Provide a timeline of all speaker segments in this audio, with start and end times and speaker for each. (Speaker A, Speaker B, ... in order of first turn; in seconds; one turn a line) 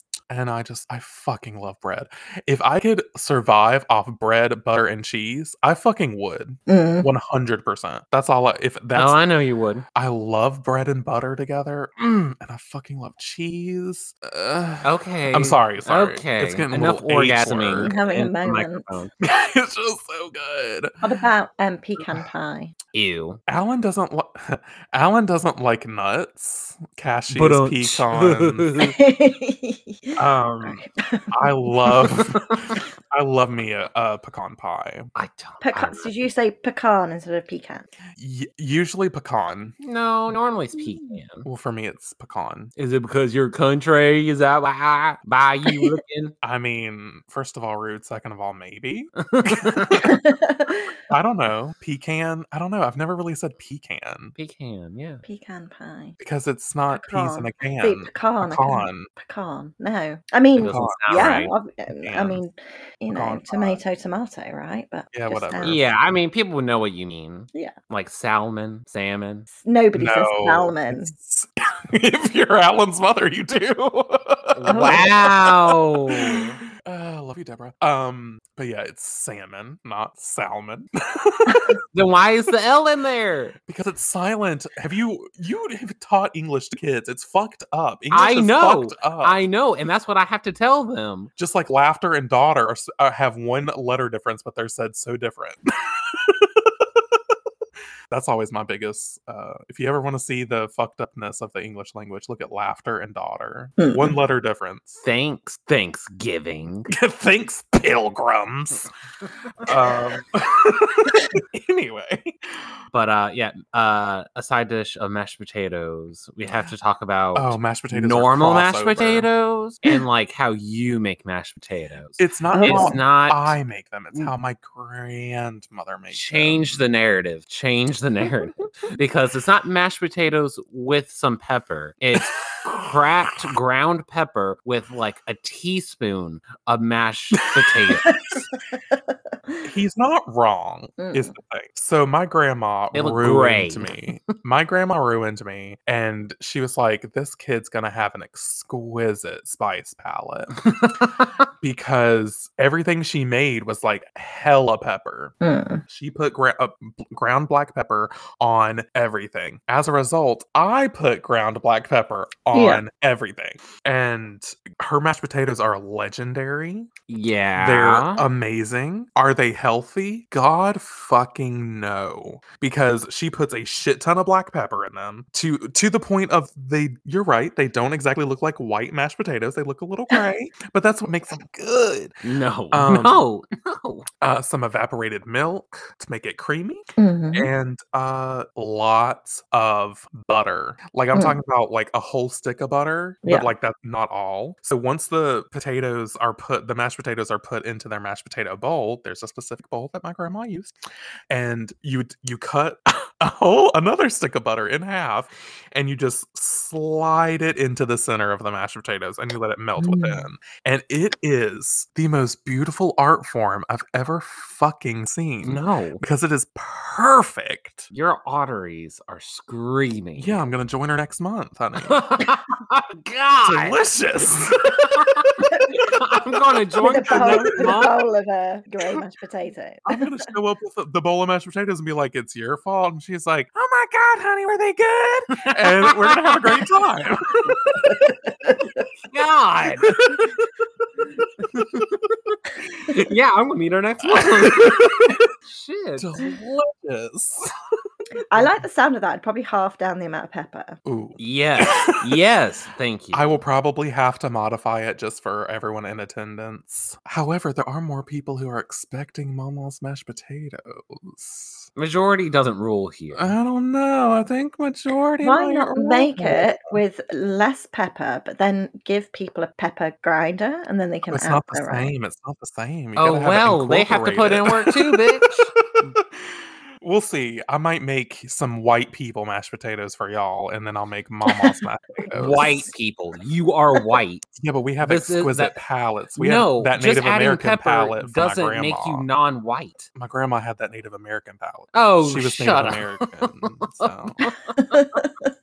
Speaker A: 0.3-9.2
Speaker B: 6.7-7.1
Speaker C: 8.9-9.8
Speaker A: 9.9-17.9
Speaker C: 14.8-19.1
Speaker B: 17.8-18.9
Speaker A: 19.2-21.2
Speaker B: 21.0-22.7
Speaker A: 22.0-22.3
Speaker C: 22.9-23.4
Speaker A: 23.5-28.7
Speaker C: 27.3-29.0
Speaker B: 28.8-31.7
Speaker A: 30.2-35.1
Speaker C: 35.1-36.1
Speaker B: 35.6-37.9
Speaker A: 38.2-39.8
Speaker C: 39.8-41.5
Speaker A: 41.5-42.7
Speaker C: 42.8-46.3
Speaker B: 45.7-46.0
Speaker A: 46.4-50.2
Speaker C: 49.2-50.0
Speaker B: 50.0-50.9
Speaker A: 51.1-54.3
Speaker C: 54.4-55.2
Speaker B: 55.2-56.2
Speaker A: 56.2-59.1
Speaker B: 56.9-65.8
Speaker C: 60.6-61.5
Speaker A: 60.6-61.4
Speaker A: 62.0-62.4
Speaker A: 63.1-63.8
Speaker A: 65.1-65.8
Speaker C: 65.6-69.5
Speaker B: 69.5-71.1
Speaker A: 69.9-81.8
Speaker C: 74.5-76.6
Speaker B: 74.7-75.1
Speaker C: 81.9-83.6
Speaker A: 83.7-89.4
Speaker C: 88.1-91.3
Speaker A: 91.4-97.2
Speaker A: 98.1-105.0
Speaker B: 103.8-104.2
Speaker C: 105.0-106.9
Speaker A: 106.9-108.9
Speaker A: 109.6-112.6
Speaker C: 112.9-123.6
Speaker A: 117.3-119.3
Speaker A: 122.2-126.8
Speaker B: 122.5-123.0
Speaker C: 126.1-138.3
Speaker A: 137.6-138.0
Speaker A: 139.6-150.7
Speaker B: 141.0-141.3
Speaker C: 142.9-144.0
Speaker C: 150.6-151.3
Speaker A: 151.6-155.3
Speaker B: 155.4-155.8
Speaker A: 155.9-166.9
Speaker B: 162.5-162.8
Speaker C: 167.1-168.2
Speaker A: 167.6-182.2
Speaker C: 182.2-184.1
Speaker A: 182.7-183.2
Speaker A: 184.2-200.7
Speaker B: 187.0-187.5
Speaker B: 193.2-193.5
Speaker A: 201.3-217.9
Speaker B: 209.8-210.2
Speaker C: 215.4-216.0
Speaker C: 217.9-220.4
Speaker A: 220.2-222.0
Speaker C: 221.8-223.8
Speaker A: 223.4-225.4
Speaker C: 224.7-228.0
Speaker B: 225.5-225.8
Speaker B: 226.8-230.3
Speaker A: 226.9-227.8
Speaker A: 229.9-238.1
Speaker C: 235.3-236.7
Speaker B: 237.9-238.7
Speaker C: 239.1-240.3
Speaker A: 239.8-240.4
Speaker C: 241.4-246.2
Speaker A: 241.6-241.9
Speaker A: 244.0-245.3
Speaker A: 246.0-247.5
Speaker B: 248.3-250.8
Speaker A: 248.3-248.6
Speaker A: 250.8-252.2
Speaker C: 251.2-253.4
Speaker A: 253.1-261.7
Speaker C: 261.8-263.3
Speaker A: 263.1-266.8
Speaker B: 265.2-271.9
Speaker A: 271.1-282.7
Speaker C: 273.0-275.5
Speaker C: 282.1-284.3
Speaker A: 284.4-289.1
Speaker C: 284.8-285.6
Speaker C: 286.2-289.9
Speaker A: 289.9-294.3
Speaker C: 291.7-294.8
Speaker B: 294.6-295.1